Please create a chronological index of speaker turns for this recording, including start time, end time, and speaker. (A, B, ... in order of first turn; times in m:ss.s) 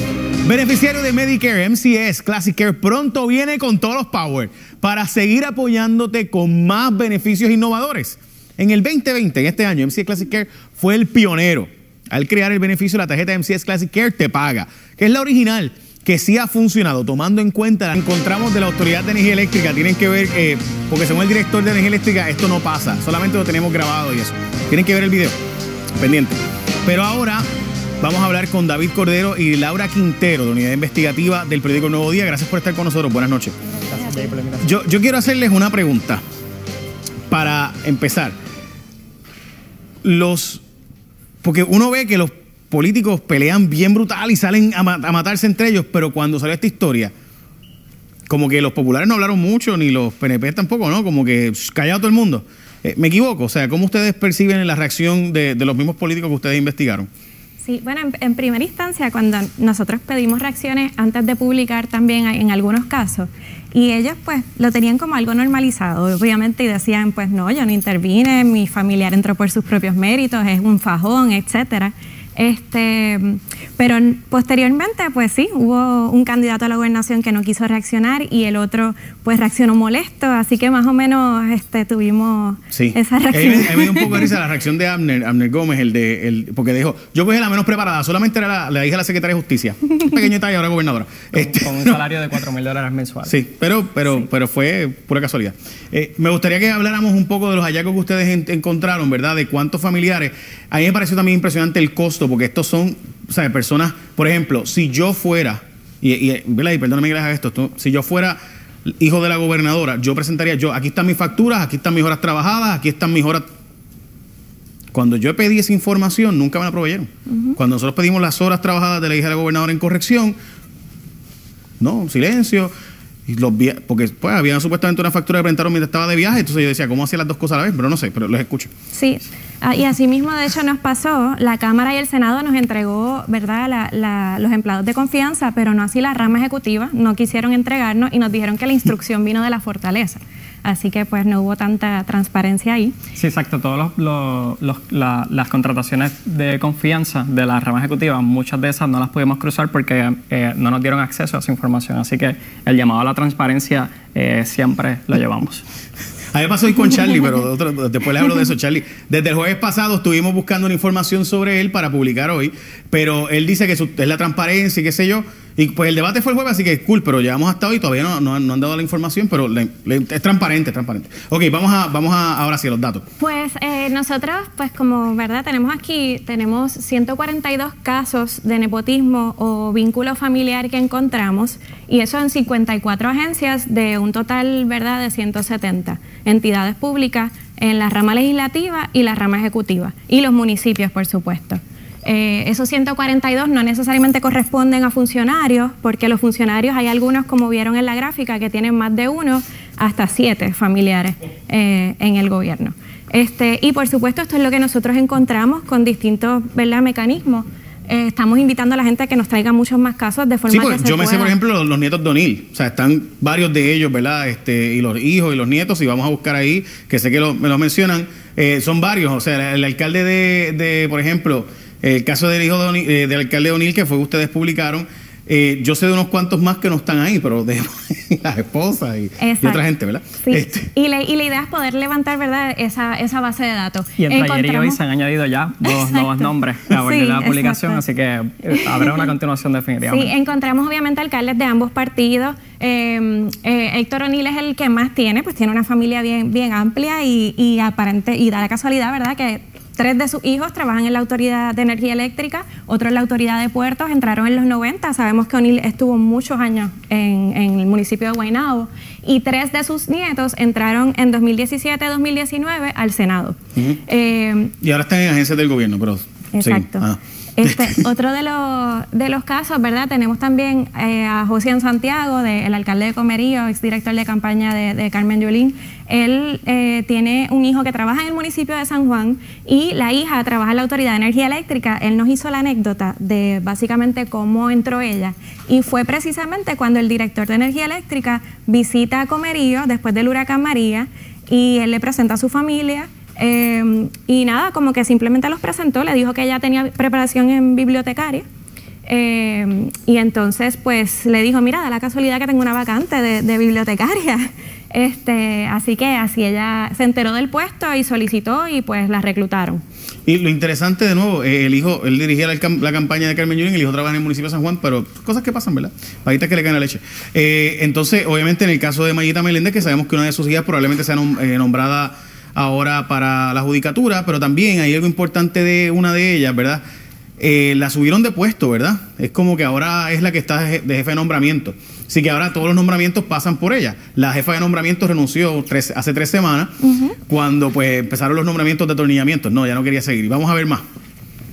0:00.4-0:25.4 A
0:26.0-0:27.5 A
0:28.0-0:33.6 A
0:33.9-0:34.6 B
0:34.6-0:36.2 A
0:37.3-0:38.4 A
0:40.0-0:40.6 A
0:41.4-0:47.1 A
0:48.3-0:57.1 A
0:57.6-1:24.3 C
1:22.7-1:32.0 A
1:31.3-1:33.4 B
1:33.3-1:53.5 A
1:54.9-2:00.4 A
1:57.3-1:57.6 C
2:01.8-2:02.7 A
2:03.3-2:08.7 A
2:08.9-2:23.0 C
2:23.2-2:35.6 B
2:36.3-2:53.0 A
2:53.2-3:31.3 C
3:30.5-3:50.7 A
3:49.2-3:49.6 C
3:50.2-3:54.8 C
3:54.0-4:00.1 B
3:55.6-3:57.8 C
3:58.6-3:59.1 C
3:59.9-4:24.5 C
4:23.6-4:23.8 A
4:24.6-4:27.8 A
4:26.4-4:58.3 C
4:58.9-5:09.6 C
5:10.1-5:26.6 A
5:27.2-5:40.6 A
5:36.6-5:36.9 C